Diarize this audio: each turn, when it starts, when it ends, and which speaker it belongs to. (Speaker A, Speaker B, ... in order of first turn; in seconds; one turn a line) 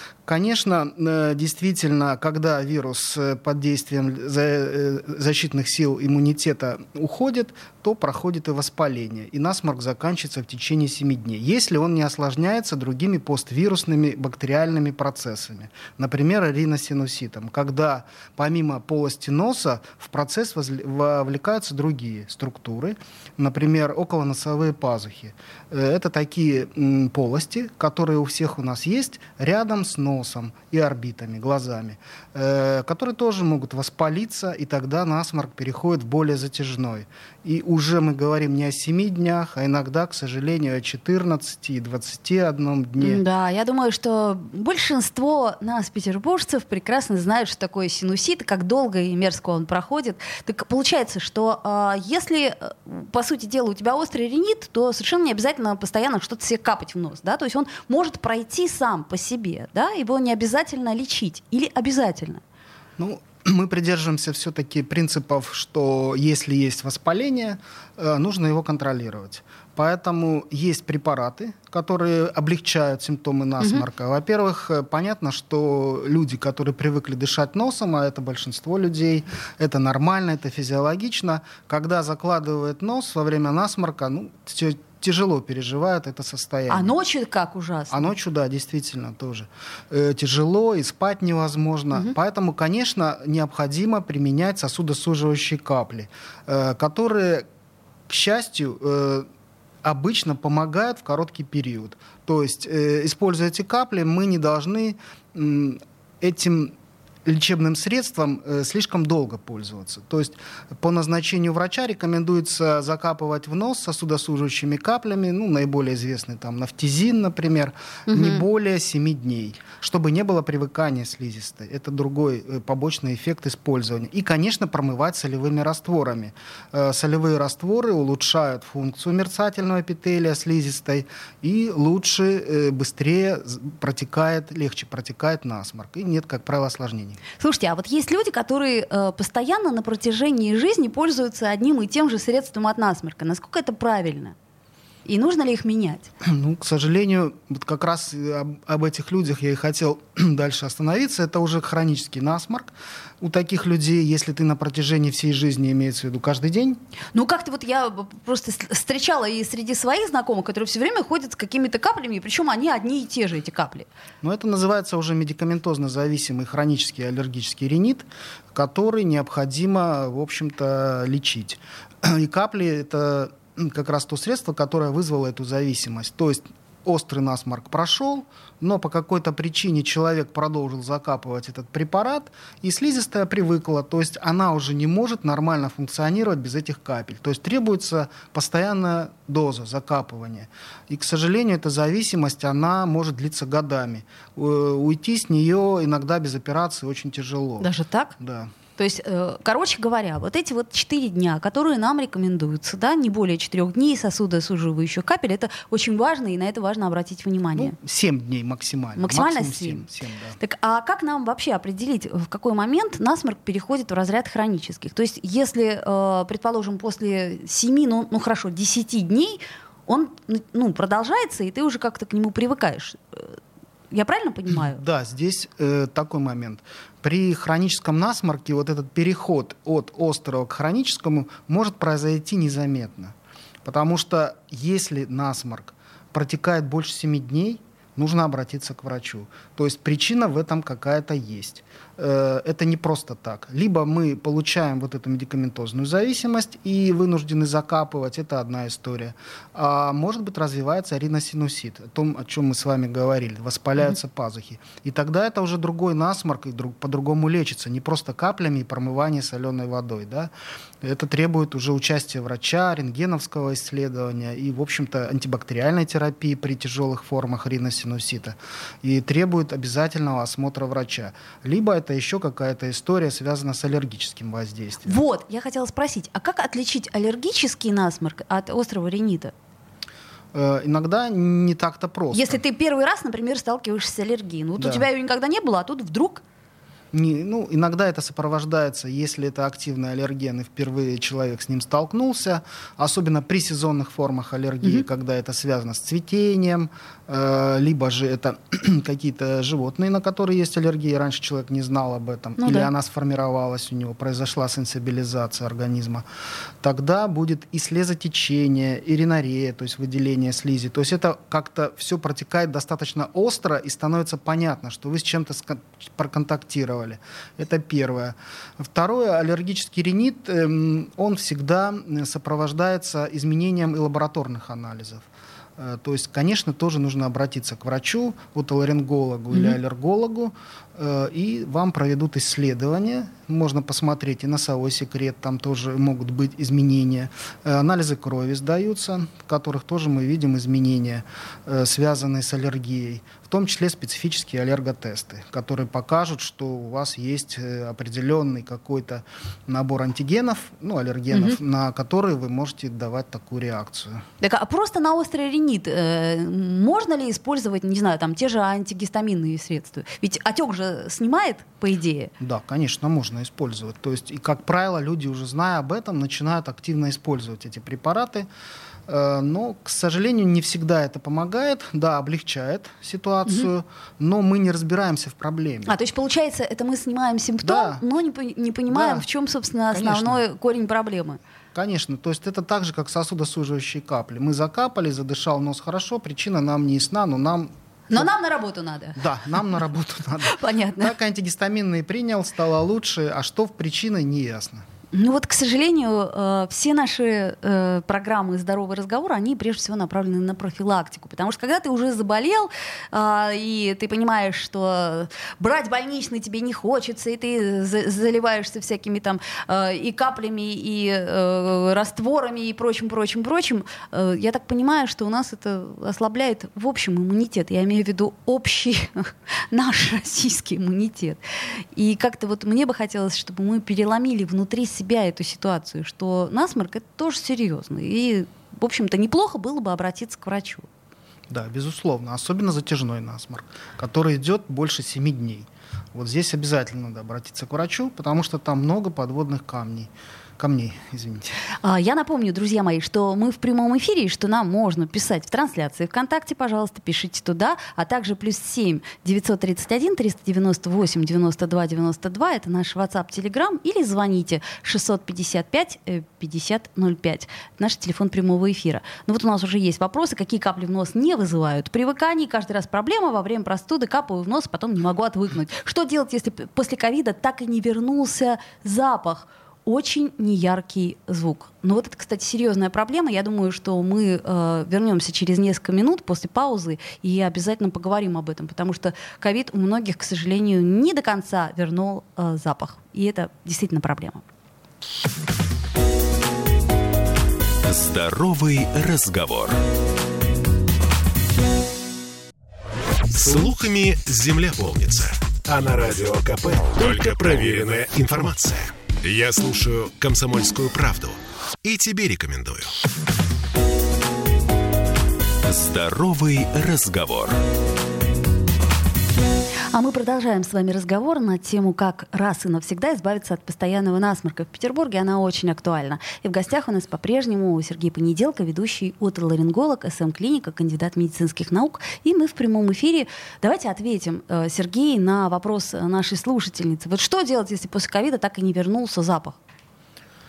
Speaker A: 0.2-43.2
Speaker B: 43.0-62.4
Speaker A: 63.0-86.9
Speaker B: 86.7-88.1
Speaker A: 87.9-97.5
Speaker A: 98.1-99.3
Speaker A: 99.8-137.2
Speaker B: 118.1-118.4
Speaker B: 137.4-144.3
Speaker B: 145.0-146.1
Speaker A: 146.2-156.8
Speaker B: 157.1-163.9
Speaker A: 164.2-198.5
Speaker B: 197.6-198.2
Speaker B: 198.8-207.8
Speaker A: 207.5-210.4
Speaker B: 209.0-209.8
Speaker B: 210.4-223.3
Speaker B: 223.9-224.8
Speaker A: 224.5-275.0
Speaker B: 274.9-279.3
Speaker A: 280.3-282.4
Speaker B: 282.1-286.2
Speaker A: 284.6-284.9
Speaker A: 286.9-306.1
Speaker B: 302.4-302.7
Speaker A: 306.6-325.1
Speaker A: 325.6-354.0
Speaker B: 351.1-351.4
Speaker B: 354.2-362.1
Speaker A: 362.2-368.3
Speaker A: 368.9-375.8
Speaker B: 375.6-381.2
Speaker A: 377.4-377.8
Speaker A: 378.7-379.1
Speaker A: 379.7-380.2
Speaker A: 381.5-388.1
Speaker B: 387.9-389.0
Speaker A: 389.0-394.6
Speaker B: 390.3-390.9
Speaker B: 394.9-430.7
Speaker A: 431.3-441.4
Speaker B: 441.6-484.2
Speaker C: 487.6-489.6
Speaker C: 493.1-502.8
Speaker C: 505.4-507.4
Speaker B: 509.7-529.4